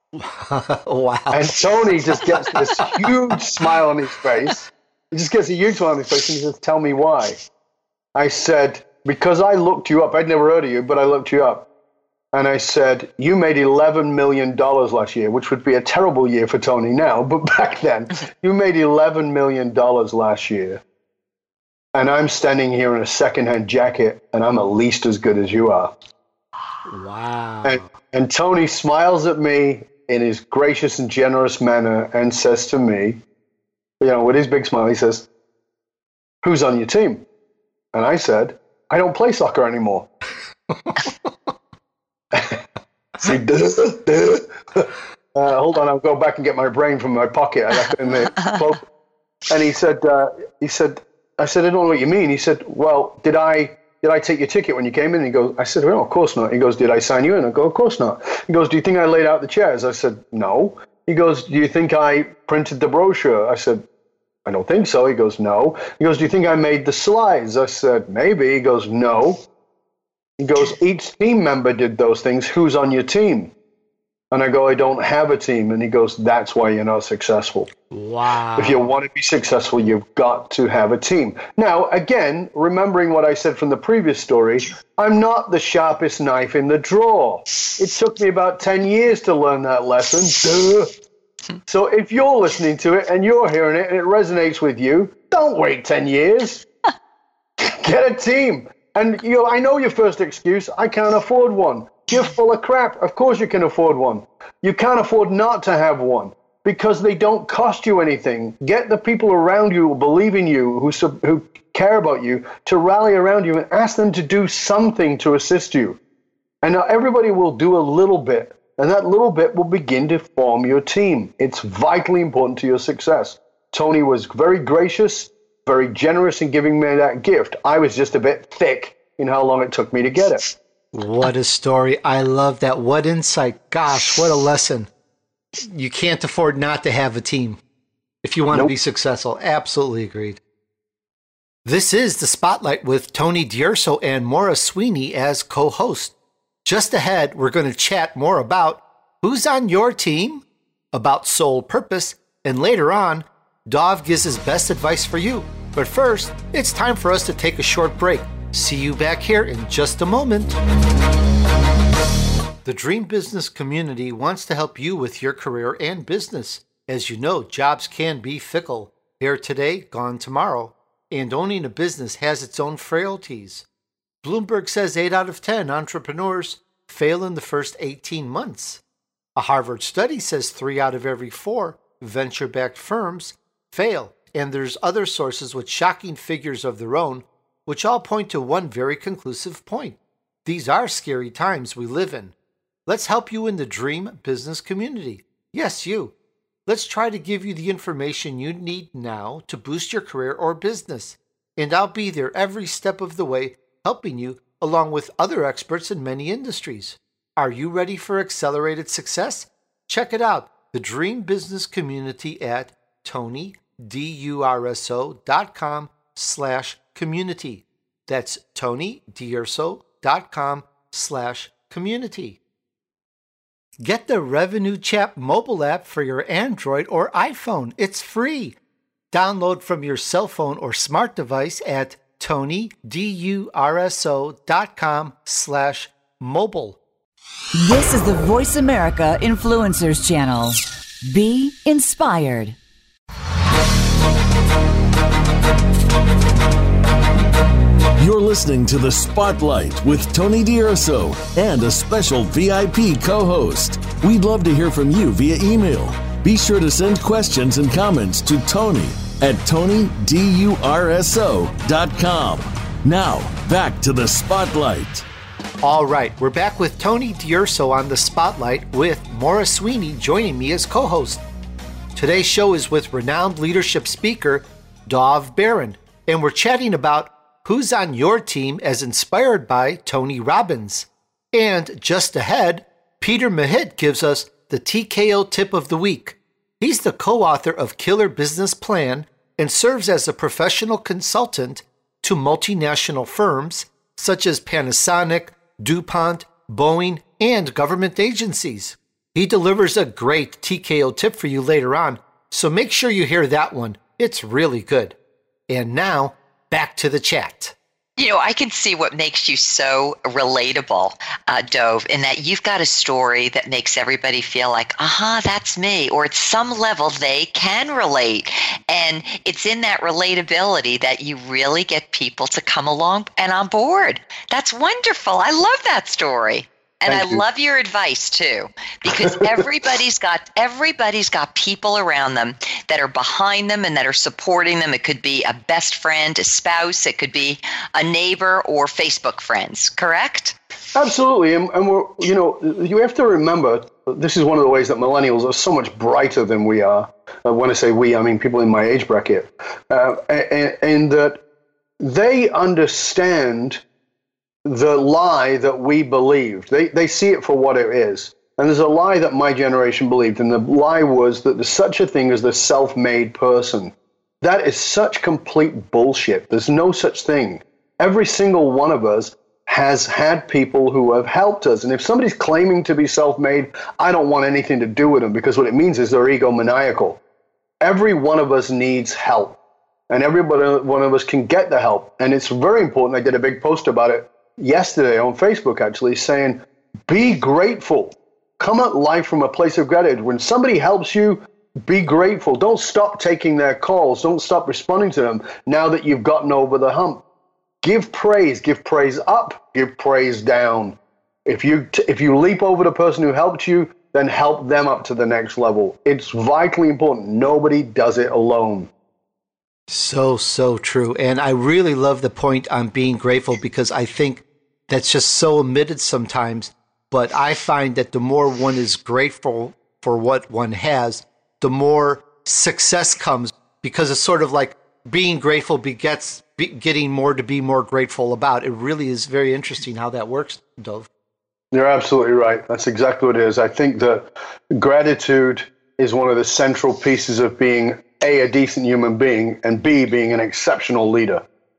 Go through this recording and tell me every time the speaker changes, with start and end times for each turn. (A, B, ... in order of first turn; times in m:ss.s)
0:00.2-0:01.6 A
0:01.3-0:07.4 B
0:02.1-0:03.7 A
0:08.1-0:11.7 B
0:12.3-0:20.8 B
0:21.9-0:25.9 B
0:26.9-0:27.8 A
0:27.6-0:33.2 B
0:34.0-0:35.2 B
0:36.4-0:37.2 B
0:37.9-0:40.1 B
0:42.3-0:42.6 B
0:43.2-0:48.8 B
0:49.5-1:03.8 B
1:04.4-1:09.4 B
1:10.4-1:13.5 B
1:14.3-1:17.7 B
1:17.9-1:18.8 A
1:18.6-1:30.9 B
1:31.7-1:36.6 B
1:37.6-1:56.0 B
1:56.6-2:10.5 B
2:10.9-2:14.9 A
2:15.6-2:17.6 A
2:18.2-2:20.4 A
2:21.6-2:40.6 A
2:42.6-2:53.6 A
2:54.2-2:58.8 A
2:59.4-3:12.3 A
3:12.9-3:16.1 A
3:16.6-3:42.4 A
3:43.8-3:48.6 A
3:49.1-3:56.8 A
3:57.5-4:02.6 C
4:08.0-4:25.0 D
4:25.6-4:31.2 A
4:31.9-5:05.0 A
5:05.5-5:07.5 A
5:08.0-5:40.3 E
5:26.9-5:27.2 B
5:40.7-5:51.2 B
5:51.8-5:53.6 B
5:54.4-6:17.0 B
6:17.6-6:19.4 B
6:19.9-6:37.0 B
6:37.6-6:48.7 B
6:49.7-7:10.9 A
7:11.5-7:21.2 B